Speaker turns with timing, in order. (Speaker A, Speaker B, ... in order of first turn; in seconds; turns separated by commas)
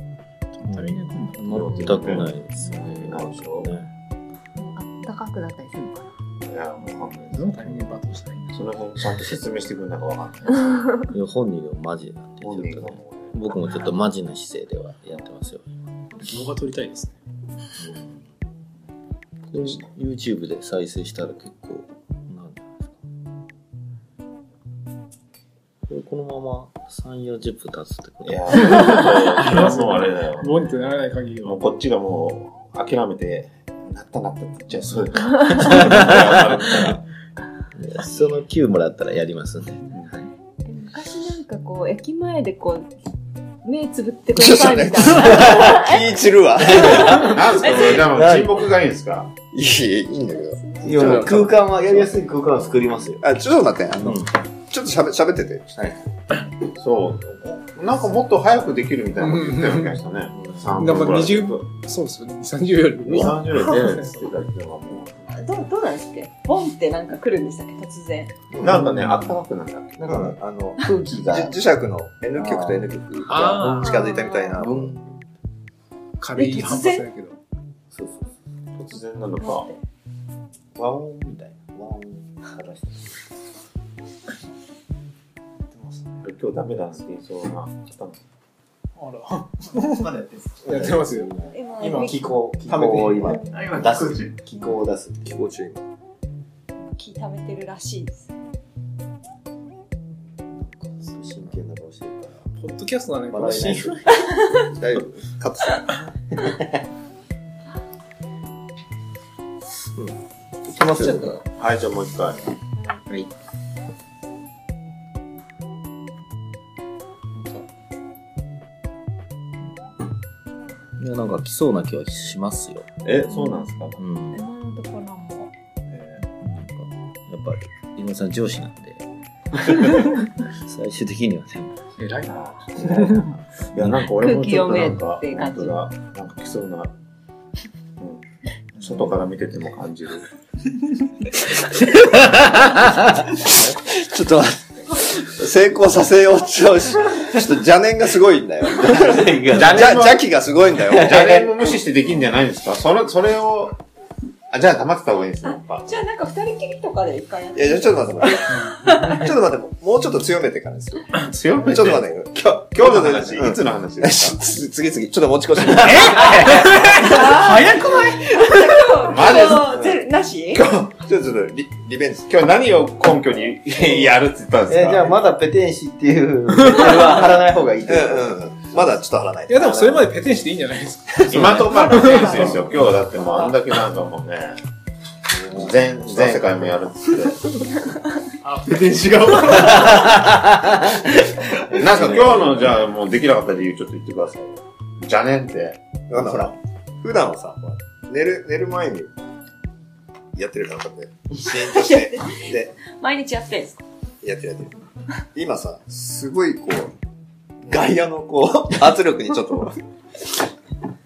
Speaker A: 0.5-2.0, Speaker B: 0.7-3.9, Speaker C: 1.4-3.7, Speaker D: 4.5-6.1, Speaker C: 6.4-7.9, Speaker A: 7.3-8.7, Speaker C: 8.5-10.9, Speaker B: 11.1-15.7, Speaker C: 12.4-13.4, Speaker A: 16.2-17.1, Speaker B: 17.8-18.2, Speaker B: 19.5-23.0, Speaker C: 19.5-19.8, Speaker B: 25.9-29.0, Speaker C: 28.2-30.7, Speaker A: 28.6-31.6, Speaker C: 31.4-37.0, Speaker D: 35.4-35.6, Speaker B: 35.5-36.5, Speaker B: 37.7-40.3, Speaker D: 40.6-42.9, Speaker D: 43.6-47.3, Speaker E: 44.3-47.4, Speaker B: 46.8-48.7, Speaker C: 47.1-49.3, Speaker E: 49.5-51.5, Speaker D: 50.5-51.1, Speaker B: 50.8-53.3, Speaker A: 51.0-51.5, Speaker E: 53.2-55.9, Speaker B: 53.9-54.3, Speaker C: 56.5-61.6, Speaker A: 59.2-60.0, Speaker B: 60.4-60.7, Speaker A: 60.8-64.0, Speaker C: 63.0-65.3, Speaker D: 65.3-68.5, Speaker E: 68.5-68.8, Speaker C: 68.6-70.3, Speaker B: 68.7-69.2, Speaker B: 70.0-71.6, Speaker E: 70.0-74.9, Speaker B: 72.4-73.8, Speaker A: 73.3-74.0, Speaker D: 73.6-74.6, Speaker B: 74.5-75.2, Speaker A: 76.2-77.4, Speaker D: 76.4-77.0, Speaker B: 77.9-78.3, Speaker C: 78.7-79.7, Speaker D: 79.4-79.8, Speaker B: 80.7-83.2, Speaker B: 85.7-86.2, Speaker C: 86.2-88.2, Speaker A: 89.0-94.3, Speaker B: 90.0-95.4, Speaker D: 91.5-92.4, Speaker E: 92.7-93.2, Speaker D: 93.4-93.8, Speaker E: 95.2-95.8, Speaker D: 96.8-98.3, Speaker B: 100.5-102.5, Speaker A: 102.5-104.2, Speaker B: 103.3-104.4, Speaker D: 104.2-104.6, Speaker E: 104.6-105.9, Speaker B: 106.4-106.8, Speaker E: 110.0-111.4, Speaker B: 110.7-111.4, Speaker C: 111.6-112.5, Speaker A: 117.3-117.6, Speaker B: 121.0-122.9, Speaker C: 123.0-124.0, Speaker D: 123.3-123.7, Speaker B: 124.0-124.5, Speaker D: 124.3-125.5, Speaker C: 125.9-126.2, Speaker B: 126.2-131.8, Speaker A: 132.0-133.3, Speaker C: 132.4-136.9, Speaker D: 134.0-135.8, Speaker C: 138.0-138.2, Speaker C: 138.8-140.3, Speaker B: 141.5-145.1, Speaker E: 145.1-151.6, Speaker B: 148.8-150.0, Speaker C: 149.5-150.3, Speaker C: 150.9-153.8, Speaker B: 150.9-151.4, Speaker C: 154.5-156.0, Speaker D: 155.4-159.3, Speaker E: 157.5-168.9, Speaker A: 158.5-159.2, Speaker C: 161.2-164.4, Speaker A: 166.2-168.3, Speaker D: 166.3-170.7, Speaker C: 169.0-169.8, Speaker E: 169.5-170.0, Speaker C: 170.5-170.9, Speaker E: 170.9-172.3, Speaker C: 172.3-175.1, Speaker B: 174.6-178.4, Speaker E: 177.9-180.1, Speaker A: 179.5-182.4, Speaker C: 181.3-184.6, Speaker C: 185.4-187.6, Speaker B: 185.5-186.6, Speaker A: 188.4-190.2, Speaker C: 189.3-189.7, Speaker B: 189.4-192.8, Speaker C: 191.6-196.4, Speaker E: 196.1-199.1, Speaker E: 200.3-202.7, Speaker D: 201.4-203.8, Speaker E: 204.2-204.8, Speaker E: 205.3-206.9, Speaker E: 207.7-209.8